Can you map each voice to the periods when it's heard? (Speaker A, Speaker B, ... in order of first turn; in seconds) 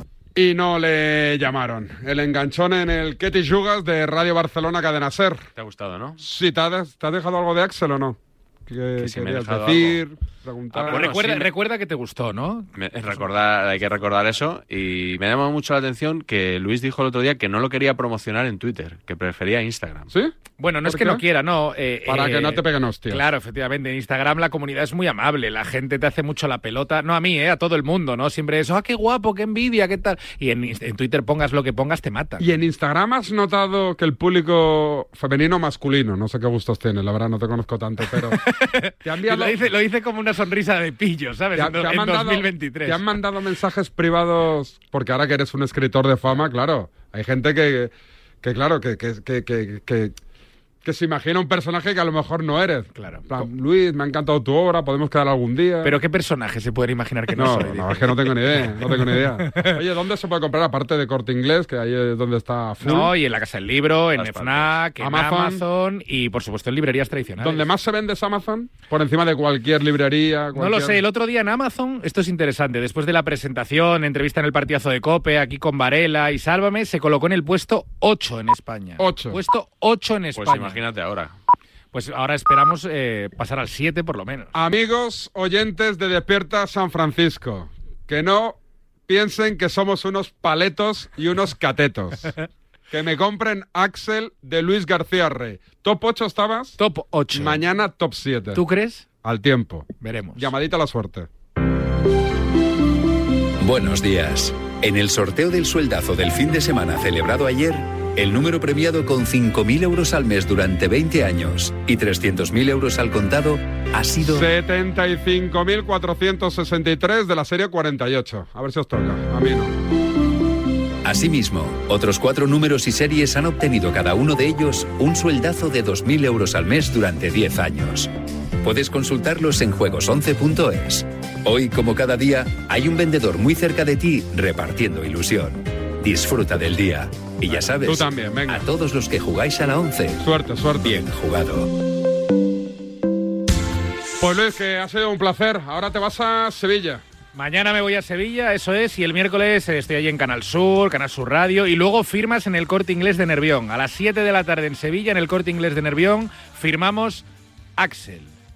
Speaker A: 0.3-5.4, 6.2-11.1, 20.1-21.2, 22.1-23.2, 32.4-38.4, 39.0-39.6, 41.5-50.2, 50.8-56.0, 57.4-63.1, 65.0-65.6, 67.4-71.0, 79.0-79.4, 84.5-88.6, 89.1-92.3, 92.9-96.8, 97.3-98.6, 99.2-101.3, 114.2-119.7, 137.5-138.7, 140.2-141.1, 144.2-147.0
Speaker B: 5.6-6.2, 9.0-10.0, 10.7-11.5, 12.8-20.1, 64.2-64.8, 80.3-81.3
Speaker C: 10.8-13.2, 20.6-32.5, 38.5-43.1, 53.0-53.5, 55.8-59.7, 62.8-67.7, 70.5-80.8, 81.9-84.5, 96.8-97.7, 98.5-99.0, 100.0-100.5, 147.3-157.2, 157.8-158.3
Speaker D: 103.6-114.5, 121.0-128.1, 128.6-140.2, 140.9-141.7